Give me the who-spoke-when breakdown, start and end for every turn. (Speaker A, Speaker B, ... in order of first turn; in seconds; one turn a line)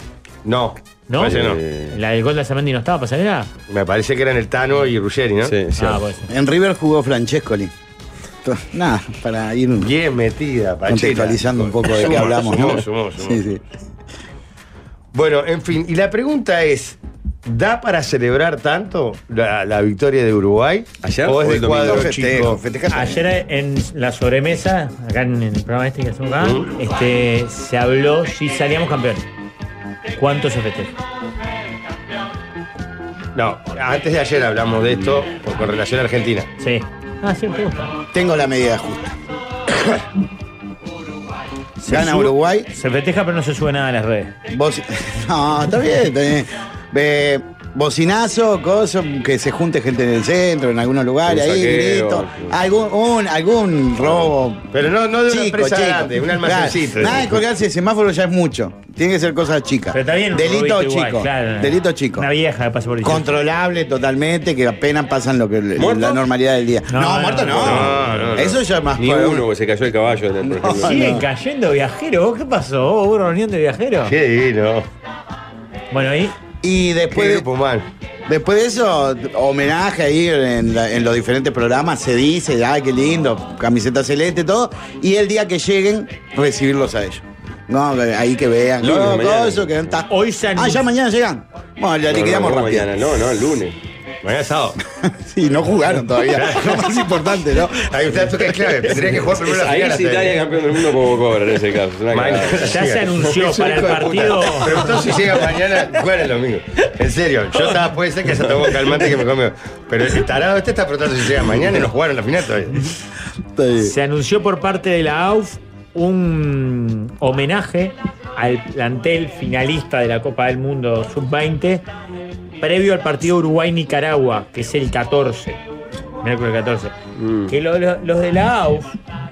Speaker A: 0.5-1.6
Speaker B: 1.1-1.4
Speaker C: 1.2-2.0
Speaker B: 1.9-3.5
Speaker A: 3.7-5.5
Speaker C: 5.4-6.0
Speaker B: 5.8-6.3
Speaker D: 6.3-7.7
Speaker D: 8.4-9.9
Speaker A: 9.8-13.4
Speaker D: 10.9-13.6
Speaker A: 15.1-22.6
Speaker C: 21.0-22.1
Speaker D: 21.8-23.3
Speaker B: 22.9-29.3
Speaker A: 26.4-26.7
Speaker B: 30.1-30.9
Speaker A: 33.4-36.5
Speaker B: 36.6-38.0
Speaker D: 38.1-39.2
Speaker B: 41.8-44.3
Speaker D: 41.9-42.7
Speaker D: 44.5-54.7
Speaker C: 51.3-52.5
Speaker A: 54.7-57.4
Speaker D: 55.3-62.3
Speaker B: 59.9-63.4
Speaker D: 63.0-69.5
Speaker C: 65.8-66.2
Speaker B: 66.9-67.9
Speaker A: 67.5-68.6
Speaker C: 69.0-71.2
Speaker D: 70.5-71.2
Speaker B: 70.8-74.2
Speaker A: 74.0-74.9
Speaker B: 75.9-76.3
Speaker D: 76.6-77.5
Speaker A: 77.1-77.9
Speaker D: 78.3-92.9
Speaker C: 88.8-89.8
Speaker B: 90.1-90.9
Speaker C: 92.1-93.8
Speaker A: 94.2-94.8
Speaker D: 95.0-98.5
Speaker A: 96.3-96.9
Speaker A: 97.9-100.4
Speaker C: 99.3-102.8
Speaker A: 102.1-112.9
Speaker B: 102.6-104.8
Speaker D: 113.5-113.9
Speaker B: 113.8-121.8
Speaker B: 122.6-125.6
Speaker B: 126.2-126.9
Speaker C: 127.2-127.5
Speaker B: 127.5-128.9